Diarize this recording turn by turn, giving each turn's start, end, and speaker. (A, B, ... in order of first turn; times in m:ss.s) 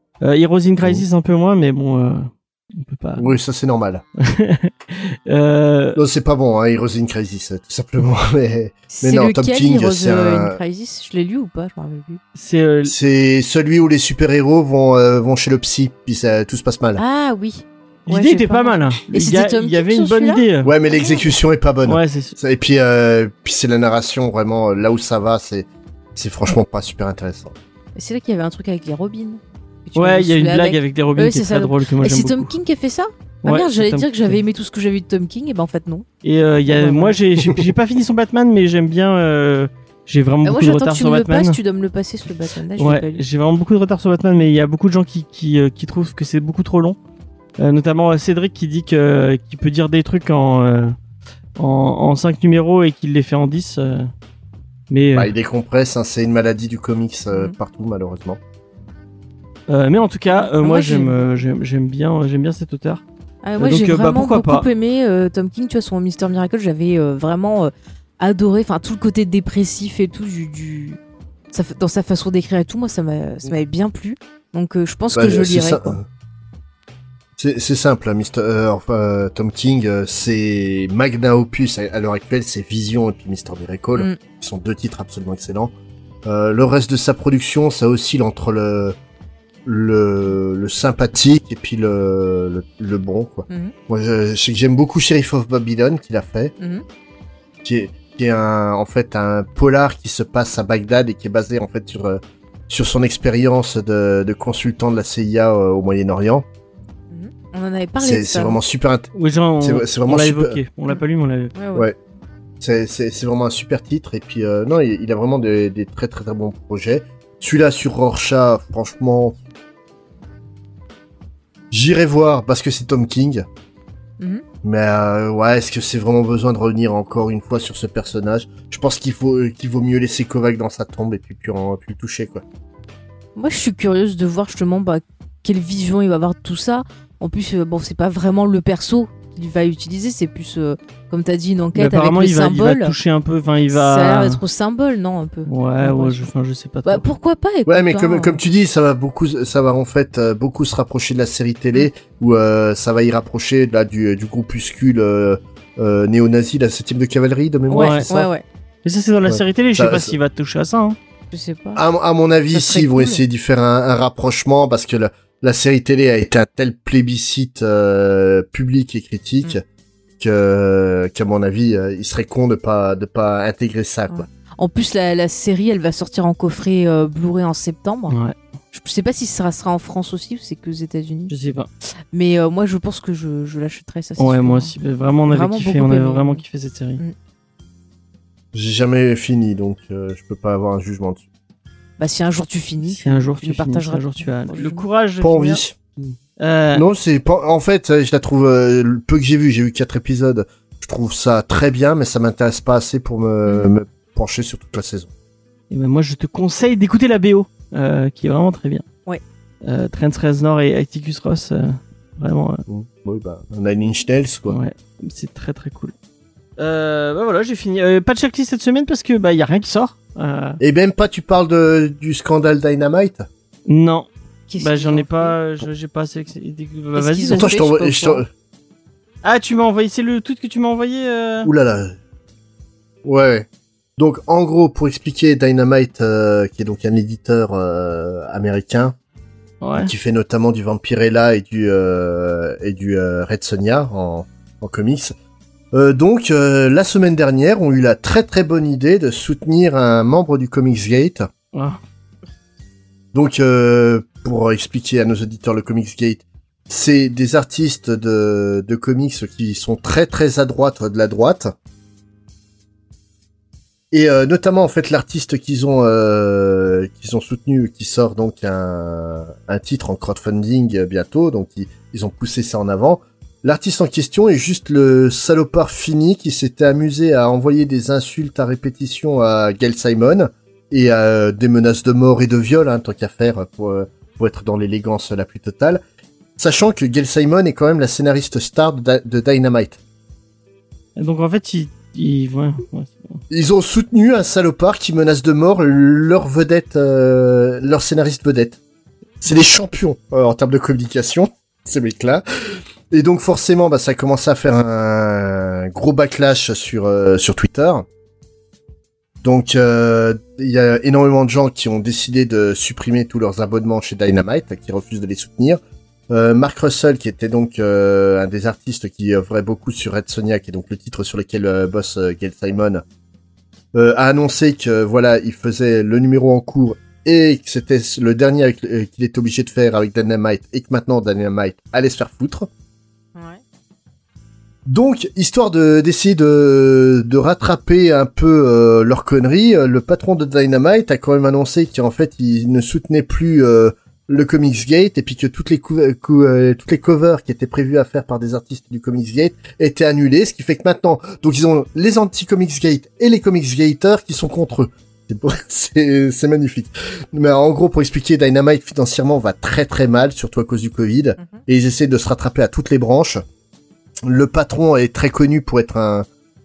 0:00.2-0:03.3 A
0:00.8-0:01.1 B
0:03.2-0:04.0 B
0:04.2-0:06.0 A
0:06.0-0:10.6 B
0:08.9-0:12.2 C
0:12.4-0:12.9 A
0:12.9-0:17.0 B
0:17.0-0:21.2 C
0:18.1-0:20.7 A
0:20.6-0:27.5 B
0:21.9-0:22.4 A
0:28.0-0:36.1 C
0:30.0-0:32.5 A
0:33.4-0:34.4 A
0:36.2-0:41.6 A
0:36.7-0:37.2 C
0:40.4-0:43.2 C
0:42.8-0:47.0 A
0:47.6-0:51.0 A
0:51.6-0:54.1 A
0:54.9-0:55.3 A
0:55.2-0:58.4 B
0:59.7-1:03.0 A
1:00.3-1:01.2 C
1:03.4-1:11.0 C
1:03.6-1:04.7 A
1:11.5-1:16.0 C
1:15.1-1:16.1 B
1:17.4-1:25.7 B
1:26.2-1:29.0 B
1:29.6-1:36.5 B
1:37.6-1:46.4 B
1:47.1-1:48.6 C
1:48.0-1:49.1 B
1:49.1-1:51.5 A
1:49.6-1:50.6 B
1:51.6-1:51.9 C
1:52.6-1:59.4 B
2:01.7-2:03.5 B
2:04.6-2:12.4 B
2:13.4-2:22.9 C
2:21.8-2:24.4 A
2:23.7-2:26.3 C
2:25.5-2:27.0 A
2:26.8-2:28.4 C
2:27.7-2:38.3 B
2:37.7-2:38.4 C
2:37.7-2:38.1 A
2:38.8-2:41.0 A
2:39.3-2:40.2 B
2:41.3-2:41.8 C
2:41.8-2:49.6 B
2:42.5-2:43.2 C
2:50.2-2:54.3 B
2:54.1-2:58.2 C
2:58.1-2:58.4 A
2:58.7-3:01.3 C
3:01.3-3:01.7 A
3:02.1-3:04.7 C
3:04.2-3:07.0 A
3:05.3-3:06.4 C
3:08.5-3:11.2 B
3:12.0-3:14.9 C
3:12.8-3:16.8 A
3:15.2-3:15.7 B
3:16.7-3:25.1 B
3:23.5-3:23.7 C
3:25.7-3:28.8 A
3:29.6-3:32.6 A
3:32.7-3:34.6 B
3:34.5-3:35.9 A
3:36.6-3:40.6 A
3:40.6-3:43.3 B
3:43.7-3:44.1 A
3:44.5-3:45.4 C
3:44.6-3:47.5 A
3:47.0-3:48.2 C
3:47.3-3:48.3 B
3:49.2-3:51.5 A
3:51.4-3:52.0 B
3:53.0-3:59.0 B
3:59.6-3:59.9 A
3:59.8-4:05.2 B
4:05.7-4:11.3 B
4:11.5-4:11.8 A
4:13.1-4:21.5 B
4:23.9-4:45.8 B
4:46.4-4:49.8 B
4:51.0-4:53.2 A
4:53.3-4:58.6 B
4:59.2-5:07.9 B
5:09.2-5:22.8 B
5:23.7-5:32.5 B
5:33.2-5:33.4 C
5:34.7-6:03.2 B
6:04.0-6:06.1 B